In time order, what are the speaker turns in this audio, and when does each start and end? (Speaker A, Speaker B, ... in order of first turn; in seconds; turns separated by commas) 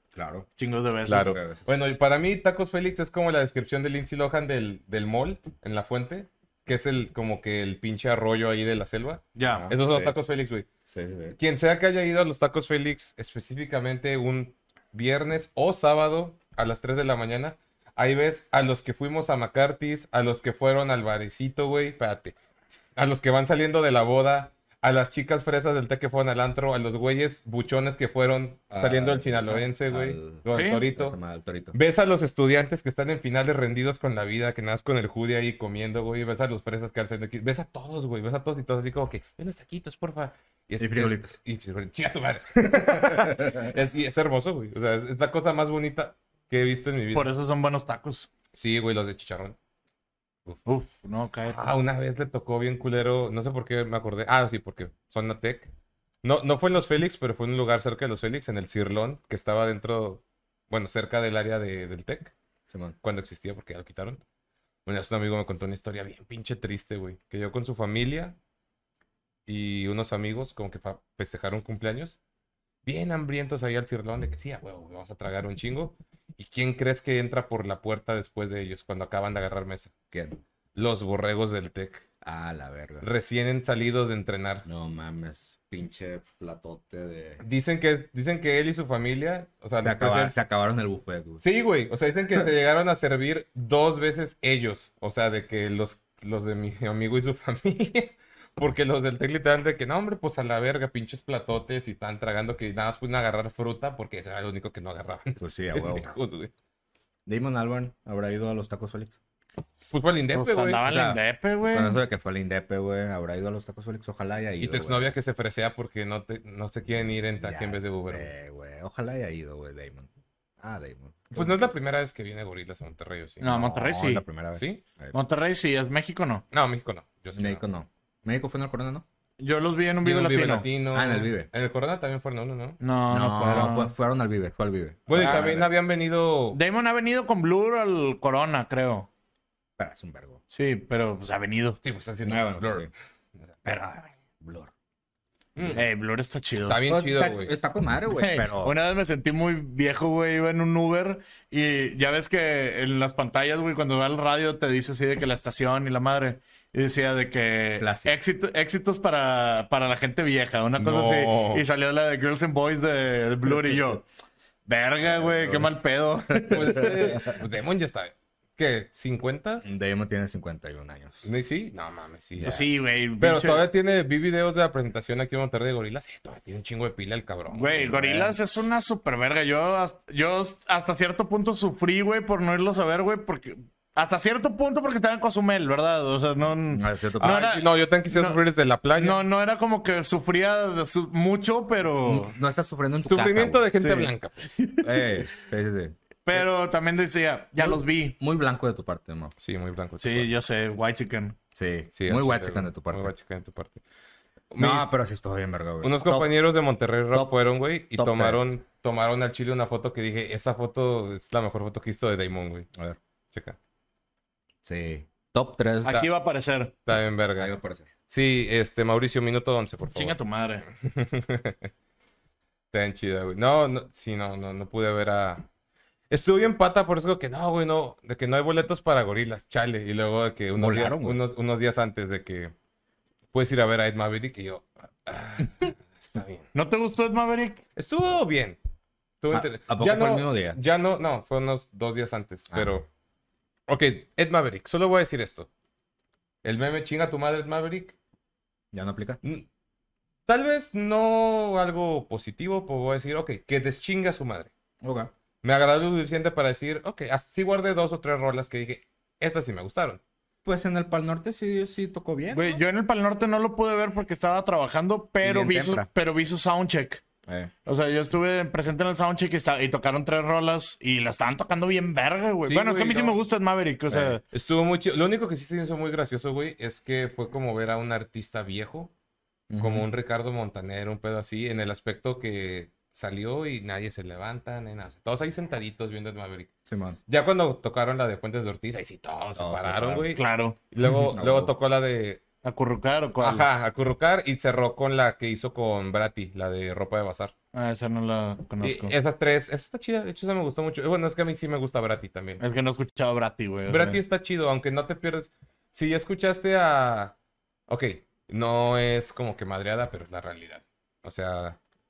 Speaker A: 0.1-0.5, Speaker B: 0.6-1.4, Speaker C: 1.1-10.7, Speaker A: 1.1-1.6, Speaker B: 9.3-9.7, Speaker A: 9.5-10.1, Speaker A: 10.9-11.4, Speaker C: 11.4-22.3, Speaker C: 22.9-31.2, Speaker A: 28.7-31.8, Speaker B: 30.5-30.8, Speaker C: 31.7-47.3, Speaker A: 40.8-41.3, Speaker A: 43.1-43.7, Speaker B: 47.1-48.3, Speaker C: 48.5-49.5, Speaker B: 50.6-51.6, Speaker C: 51.5-55.7, Speaker C: 56.2-62.3, Speaker A: 62.7-62.9, Speaker C: 63.0-64.2, Speaker C: 64.8-68.4, Speaker C: 69.5-72.2, Speaker C: 72.8-79.9, Speaker A: 80.1-80.4, Speaker C: 80.7-82.0, Speaker A: 82.2-83.1, Speaker C: 83.0-84.6, Speaker A: 84.6-87.4, Speaker C: 87.4-90.3, Speaker A: 89.8-91.4, Speaker C: 91.4-106.5, Speaker A: 105.4-106.1, Speaker A: 107.2-109.2, Speaker C: 109.9-110.8, Speaker B: 110.3-112.0, Speaker A: 110.9-115.1, Speaker C: 114.6-118.3, Speaker A: 117.4-121.8, Speaker C: 121.3-123.6, Speaker B: 123.4-124.2, Speaker A: 123.4-125.1, Speaker C: 124.5-124.8, Speaker B: 125.1-126.4, Speaker C: 126.5-127.6, Speaker A: 127.3-129.0, Speaker B: 129.4-130.7, Speaker C: 130.0-132.8, Speaker A: 130.9-131.5, Speaker B: 132.8-133.9, Speaker A: 133.1-135.7, Speaker C: 135.1-136.6, Speaker B: 135.2-135.5, Speaker B: 136.5-139.1, Speaker A: 139.8-140.4, Speaker B: 140.5-141.8, Speaker C: 141.8-142.9, Speaker A: 142.2-142.9, Speaker A: 143.6-144.7, Speaker C: 145.6-145.8, Speaker A: 145.6-145.8, Speaker B: 145.7-146.8, Speaker C: 146.7-147.5, Speaker A: 146.9-148.7, Speaker B: 148.2-164.0, Speaker A: 157.8-158.1, Speaker C: 160.8-161.6, Speaker B: 164.7-166.9, Speaker A: 165.0-165.7, Speaker A: 166.3-167.3, Speaker C: 166.5-169.7, Speaker A: 169.6-171.2, Speaker C: 171.2-177.9, Speaker A: 172.3-172.6, Speaker B: 172.4-173.6, Speaker B: 177.5-188.4, Speaker A: 177.8-178.4, Speaker A: 186.7-187.4, Speaker C: 187.2-189.2, Speaker B: 188.9-192.3, Speaker A: 192.0-194.1, Speaker C: 193.0-194.7, Speaker A: 194.7-195.9, Speaker B: 196.2-198.2, Speaker A: 197.6-199.3, Speaker C: 199.4-200.3, Speaker B: 200.0-201.3, Speaker A: 201.5-203.1, Speaker C: 201.9-203.8, Speaker C: 204.5-204.9, Speaker A: 204.6-206.3, Speaker C: 205.8-212.7, Speaker A: 207.9-208.4, Speaker A: 214.6-216.0, Speaker B: 215.8-216.7, Speaker C: 216.8-217.5, Speaker A: 217.4-217.9, Speaker C: 218.1-221.7, Speaker B: 219.9-220.6, Speaker C: 222.7-225.4, Speaker C: 226.1-232.5, Speaker A: 230.6-231.2, Speaker C: 233.3-236.5, Speaker B: 236.5-237.6, Speaker C: 237.8-238.6, Speaker C: 239.2-242.8, Speaker A: 239.3-240.6, Speaker C: 243.7-245.5, Speaker C: 246.4-247.9, Speaker A: 248.7-249.2, Speaker C: 250.3-254.5, Speaker A: 254.8-255.1, Speaker C: 255.4-260.0, Speaker A: 260.4-262.6, Speaker B: 262.3-267.0, Speaker A: 265.2-265.9, Speaker A: 267.2-267.5, Speaker B: 267.6-274.2, Speaker C: 272.4-273.2, Speaker A: 273.9-274.2, Speaker C: 274.3-278.9, Speaker A: 279.5-279.9, Speaker C: 279.6-286.5, Speaker A: 286.7-287.0, Speaker C: 287.1-292.2, Speaker A: 289.4-290.1, Speaker B: 290.1-290.6, Speaker A: 291.1-291.5, Speaker B: 292.4-293.5, Speaker C: 293.2-297.3, Speaker B: 297.5-298.9, Speaker C: 298.6-302.4, Speaker B: 302.4-304.0, Speaker C: 303.7-307.1, Speaker C: 307.7-311.6